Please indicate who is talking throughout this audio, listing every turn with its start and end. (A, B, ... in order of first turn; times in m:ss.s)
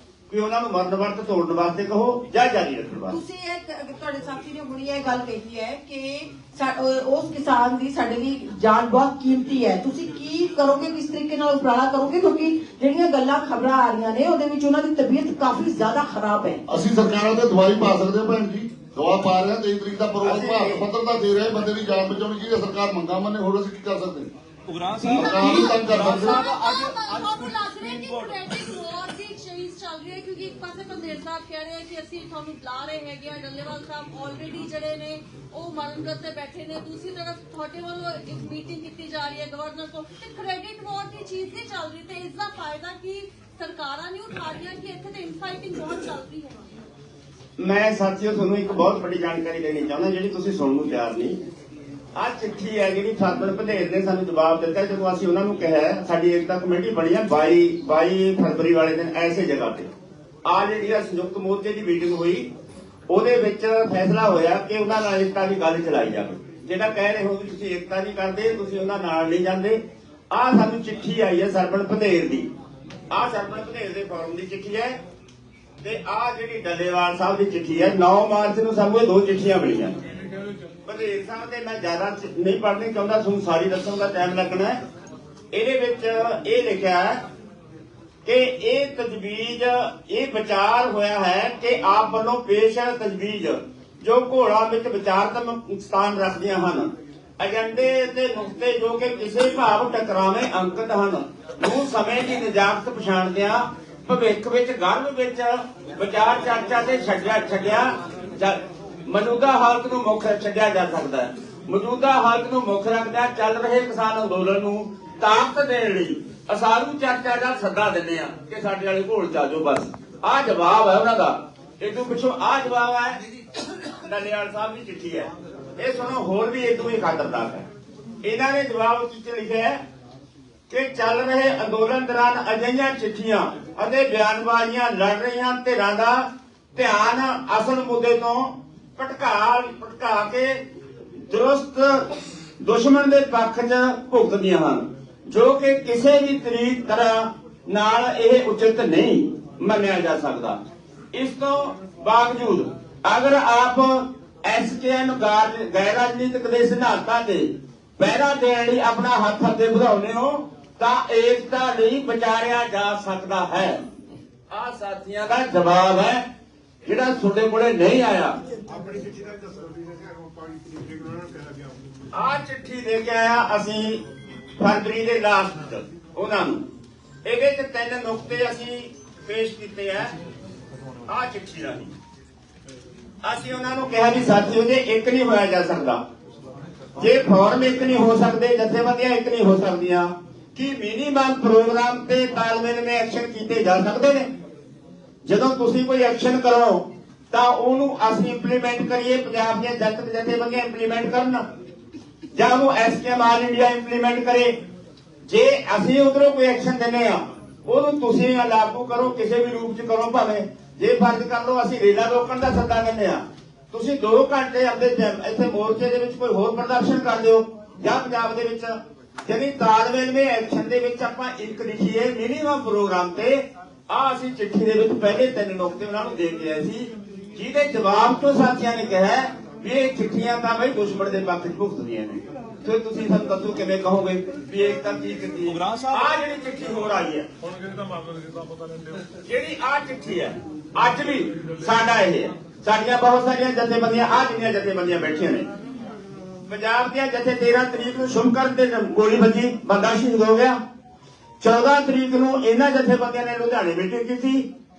0:00.3-0:03.2 A
0:03.1-0:16.6 B
0:16.7-0:24.3 C
0:20.2-0:20.9 A
0:24.7-0:28.4 D
0:25.0-0:26.5 C
0:25.0-0:46.8 E
0:47.6-0:51.4 A
0:52.2-0:59.9 A
1:00.4-1:02.5 A
1:03.1-1:09.8 A
1:10.3-1:12.5 A
1:13.1-1:15.0 A
1:15.8-1:20.0 A
1:20.8-1:24.8 A
1:25.5-1:27.2 A
1:28.2-2:03.2 A
2:03.8-2:07.7 A
2:08.2-2:09.8 A
2:10.7-2:20.6 A
2:21.3-2:30.6 A
2:31.1-2:43.8 A
2:44.5-2:46.2 A
2:46.8-2:48.4 A
2:52.1-2:54.0 A
2:54.6-2:56.6 A
2:57.2-3:00.1 A
3:01.1-3:01.9 A
3:03.2-3:06.0 A
3:07.0-3:14.3 A
3:15.3-3:21.4 A
3:22.4-3:24.5 A
3:25.3-3:38.7 A
3:39.2-3:57.3 A
3:55.5-3:56.0 D
3:59.2-4:05.5 A
4:06.5-4:10.6 A
4:11.4-4:14.5 A